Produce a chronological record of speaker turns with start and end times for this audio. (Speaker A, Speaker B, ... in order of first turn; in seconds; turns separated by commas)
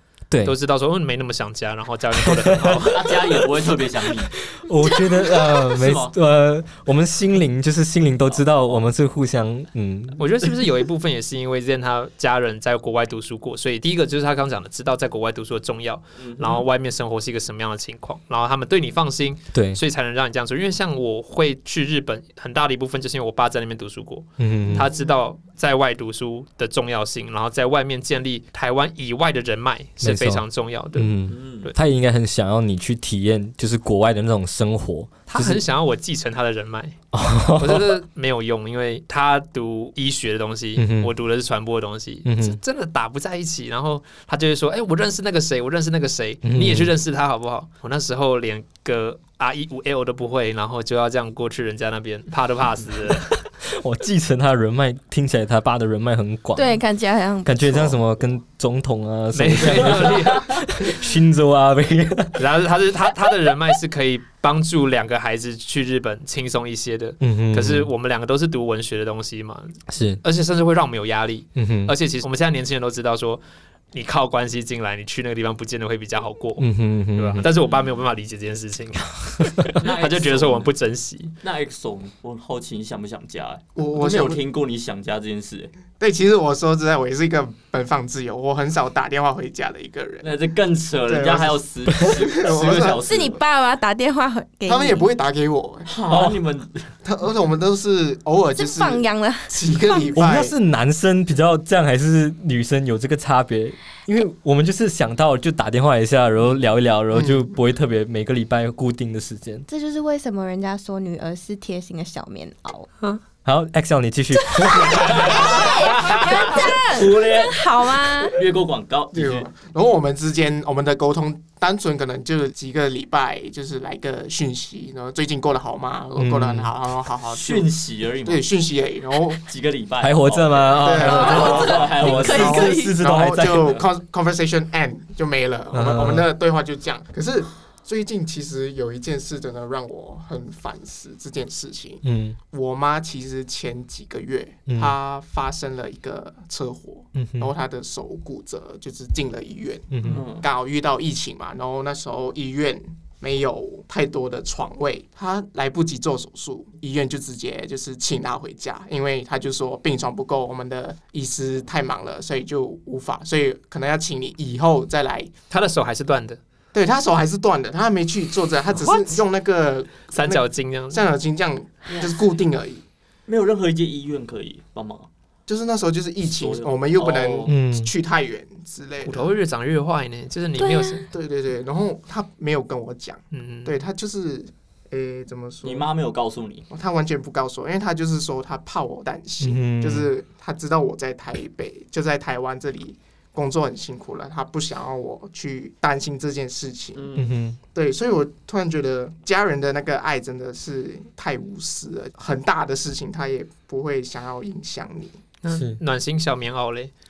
Speaker A: 0.3-0.5, Speaker B: 0.4-3.3, Speaker A: 2.2-2.8, Speaker C: 2.8-4.3, Speaker A: 4.5-10.2, Speaker C: 5.7-6.1, Speaker C: 8.3-8.8, Speaker B: 10.2-31.7, Speaker C: 16.2-16.6, Speaker A: 19.5-19.8, Speaker A: 24.4-24.9, Speaker A: 30.0-35.6, Speaker C: 31.3-31.7, Speaker B: 35.3-37.0, Speaker A: 37.1-37.9, Speaker B: 37.6-53.4, Speaker A: 40.8-41.1, Speaker A: 42.2-42.6, Speaker A: 46.4-46.9, Speaker A: 53.6-56.8, Speaker D: 56.5-58.0, Speaker A: 57.4-62.5, Speaker B: 59.3-60.6, Speaker C: 60.0-60.4, Speaker B: 62.4-73.4, Speaker A: 67.2-67.9, Speaker A: 69.9-70.2, Speaker A: 71.5-71.9, Speaker B: 73.9-81.3, Speaker A: 76.6-77.5, Speaker C: 79.8-80.7, Speaker C: 81.4-85.7, Speaker E: 83.8-84.4, Speaker E: 86.0-90.4, Speaker C: 90.2-93.4, Speaker E: 91.0-93.2, Speaker D: 93.0-95.1, Speaker E: 94.7-96.2, Speaker C: 95.8-96.9, Speaker A: 96.1-96.4, Speaker E: 97.0-100.5, Speaker D: 98.5-100.1, Speaker A: 100.1-109.7, Speaker E: 107.1-107.5, Speaker D: 109.7-112.9, Speaker A: 113.4-115.7, Speaker D: 114.6-118.3, Speaker C: 114.9-119.5, Speaker E: 119.1-129.4, Speaker A: 126.2-126.7, Speaker C: 127.2-128.4, Speaker C: 129.4-132.7, Speaker A: 130.0-133.8, Speaker E: 130.8-165.3, Speaker D: 131.0-133.0, Speaker A: 135.7-136.3, Speaker A: 142.0-142.4, Speaker A: 144.7-144.9, Speaker A: 147.1-147.5, Speaker A: 149.9-150.2, Speaker C: 150.1-150.5, Speaker B: 165.5-166.4, Speaker E: 166.7-172.8, Speaker B: 168.7-169.2, Speaker B: 170.1-171.0, Speaker C: 171.9-172.2, Speaker C: 173.3-175.1, Speaker E: 175.5-179.3, Speaker C: 176.2-177.5, Speaker A: 177.4-177.9, Speaker B: 179.0-181.1, Speaker D: 180.6-181.1, Speaker E: 181.1-185.9, Speaker B: 183.3-183.8, Speaker C: 185.6-186.7, Speaker E: 186.7-197.2, Speaker A: 189.4-190.1, Speaker C: 196.9-197.3, Speaker A: 197.2-197.6, Speaker E: 197.7-205.2, Speaker B: 205.4-206.9, Speaker A: 205.5-205.8